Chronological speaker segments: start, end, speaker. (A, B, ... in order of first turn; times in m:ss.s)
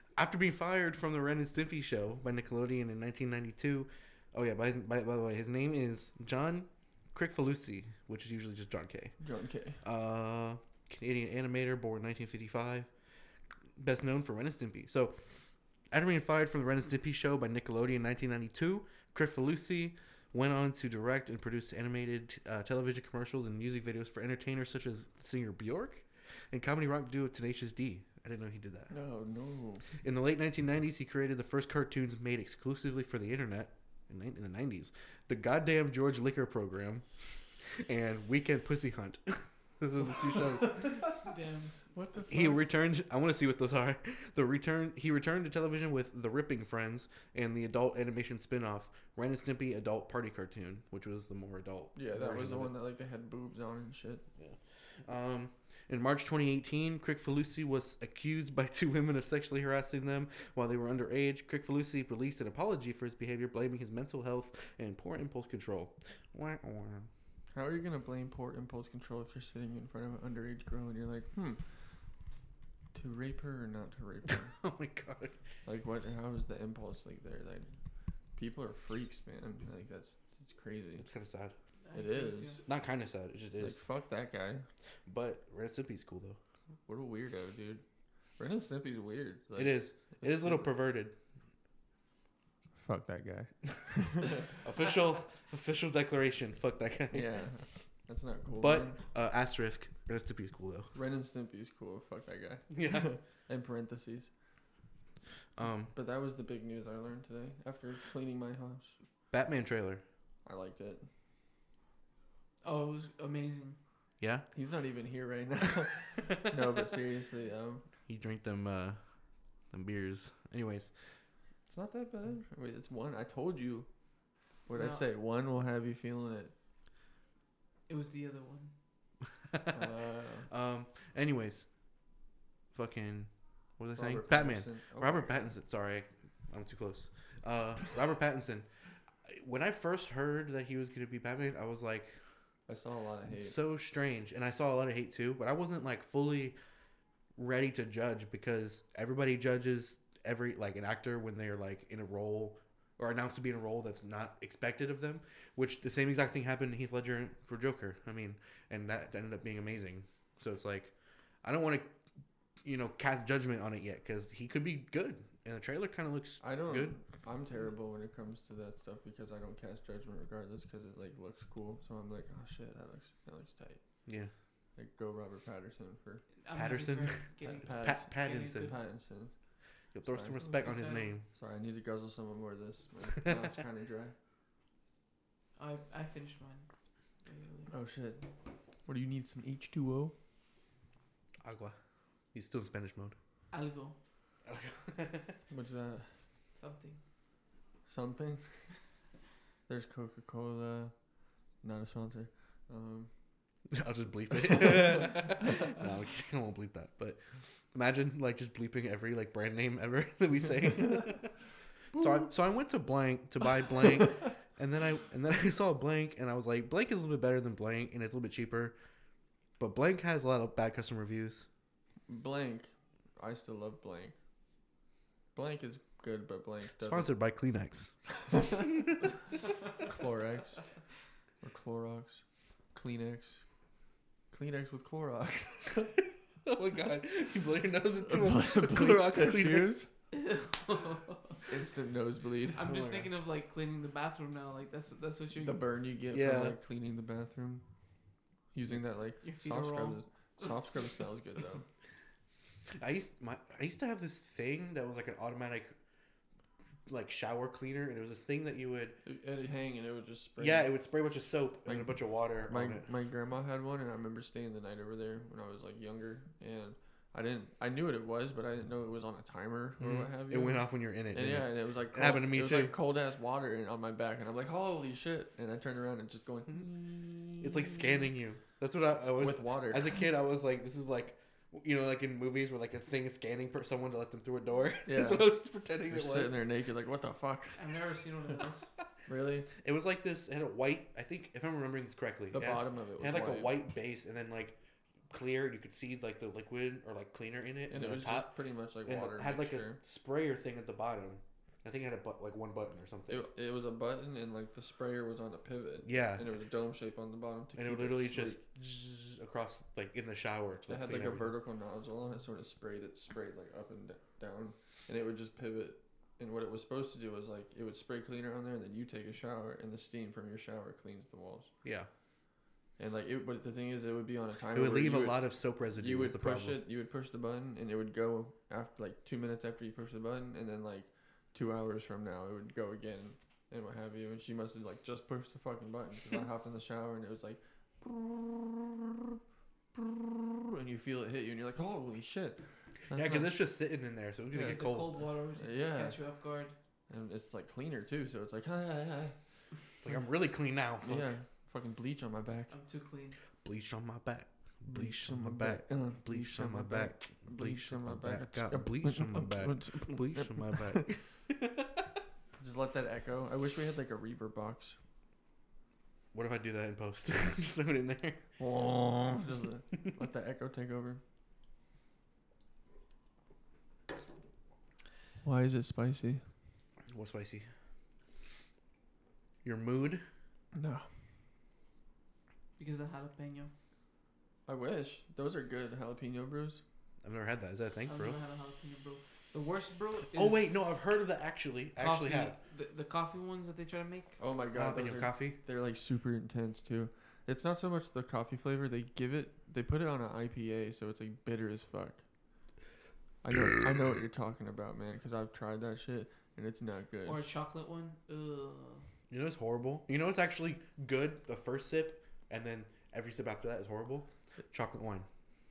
0:00.2-0:09.2 A
0:09.2-0:09.8 B
0:09.8-0:12.9 A
0:13.8-0:15.2 A
0:15.9-0:28.9 A
0:28.9-0:29.8 B
0:30.0-0:41.1 A
0:41.2-0:41.7 C
0:41.9-0:42.6 B
0:42.3-0:52.7 A
0:51.9-0:54.2 B
0:54.4-1:07.1 A
1:07.5-1:11.6 B
1:12.9-1:14.5 B
1:14.3-1:15.4 A
1:15.6-1:17.7 B
1:18.4-1:21.1 B
1:21.0-1:21.5 A
1:21.8-1:22.6 C
1:21.9-1:22.6 B
1:22.6-1:23.8 A
1:23.6-1:24.6 B
1:25.0-1:26.4 A
1:26.9-1:27.8 B
1:28.4-1:30.7 B
1:29.6-1:31.1 A
1:32.8-1:34.5 B
1:34.4-1:37.3 A
1:37.1-1:39.0 B
1:38.6-1:40.9 A
1:40.9-1:44.3 B
1:42.7-1:43.1 A
1:45.6-1:45.9 A
1:45.9-1:49.0 B
1:49.3-1:50.0 A
1:50.4-1:51.0 B
1:52.6-1:53.8 C
1:54.2-1:54.4 A
1:54.5-1:57.8 B
1:56.2-1:56.5 A
1:58.1-1:59.0 A
1:59.7-2:00.9 A
2:01.7-2:03.9 B
2:04.7-2:06.5 B
2:04.7-2:05.0 C
2:07.9-2:08.7 C
2:09.5-2:09.9 A
2:09.7-2:10.5 B
2:10.5-2:11.7 A
2:12.7-2:18.7 A
2:13.9-2:15.5 B
2:19.3-2:22.2 A
2:22.7-2:23.6 B
2:23.3-2:26.6 A
2:27.4-2:40.9 A
2:41.4-2:41.9 A
2:42.6-2:47.0 A
2:46.4-2:53.8 B
2:54.0-2:54.3 A
2:54.8-2:56.2 B
2:56.4-2:58.7 C
2:56.5-2:58.7 A
2:57.4-2:59.3 B
2:59.9-3:01.2 A
3:00.0-3:00.6 B
3:00.5-3:01.1 C
3:01.3-3:04.1 B
3:05.6-3:06.7 C
3:07.2-3:07.7 C
3:07.7-3:08.3 B
3:08.8-3:10.1 B
3:11.4-3:11.8 A
3:12.3-3:13.2 A
3:13.5-3:14.0 C
3:14.4-3:15.4 A
3:15.5-3:16.1 B
3:16.6-3:17.0 C
3:17.9-3:18.6 B
3:19.7-3:20.9 B
3:21.6-3:23.1 B
3:23.7-3:27.2 A
3:24.5-3:25.2 B
3:27.7-3:31.3 A
3:31.9-3:38.8 A
3:39.6-3:41.5 A
3:42.1-3:44.1 B
3:45.3-3:47.1 B
3:46.8-3:49.1 A
3:48.3-3:48.7 B
3:49.8-3:50.6 B
3:51.4-3:52.2 B
3:52.7-3:53.4 B
3:54.3-3:55.9 B
3:56.4-3:59.8 A
3:58.0-3:59.9 B
4:00.1-4:01.4 C
4:01.5-4:02.6 B
4:02.5-4:05.6 C
4:02.6-4:03.1 A
4:05.4-4:07.6 B
4:06.1-4:06.6 A
4:08.5-4:11.6 B
4:09.2-4:10.0 C
4:12.8-4:15.8 A
4:16.9-4:19.0 A
4:19.0-4:20.7 B
4:20.4-4:22.9 A
4:21.7-4:37.9 B
4:29.8-4:32.8 A
4:37.4-4:46.4 A
4:39.2-4:40.0 B
4:44.8-4:45.3 B
4:45.9-4:47.7 B
4:47.6-4:48.7 C
4:49.0-4:49.5 B
4:49.6-4:54.6 A
4:52.3-4:53.5 B
4:55.1-5:03.2 A
4:57.7-4:59.8 B
5:03.1-5:08.4 B
5:05.8-5:06.3 A
5:07.5-5:11.3 A
5:10.7-5:21.5 B
5:22.8-5:25.2 B
5:24.5-5:26.6 A
5:25.8-5:39.2 B
5:39.7-5:43.3 B
5:42.9-5:45.0 A
5:44.3-5:46.5 C
5:45.4-5:46.0 B
5:46.9-5:49.2 B
5:49.8-5:51.1 A
5:50.8-5:52.5 B
5:52.5-5:53.2 C
5:53.4-6:01.8 A
5:54.7-6:00.9 B
6:02.4-6:04.8 B
6:06.1-6:08.2 A
6:08.4-6:11.0 B
6:15.2-6:16.2 B
6:16.9-6:17.5 A
6:19.4-6:20.0 A
6:20.5-6:20.9 B
6:22.6-6:23.5 C
6:24.4-6:26.6 B
6:27.0-6:28.2 A
6:27.9-6:30.5 C
6:30.1-6:32.4 A
6:31.8-6:34.2 C
6:34.2-6:42.0 B
6:34.5-6:35.4 A
6:43.2-6:47.2 B
6:47.0-6:48.8 C
6:49.1-6:55.1 A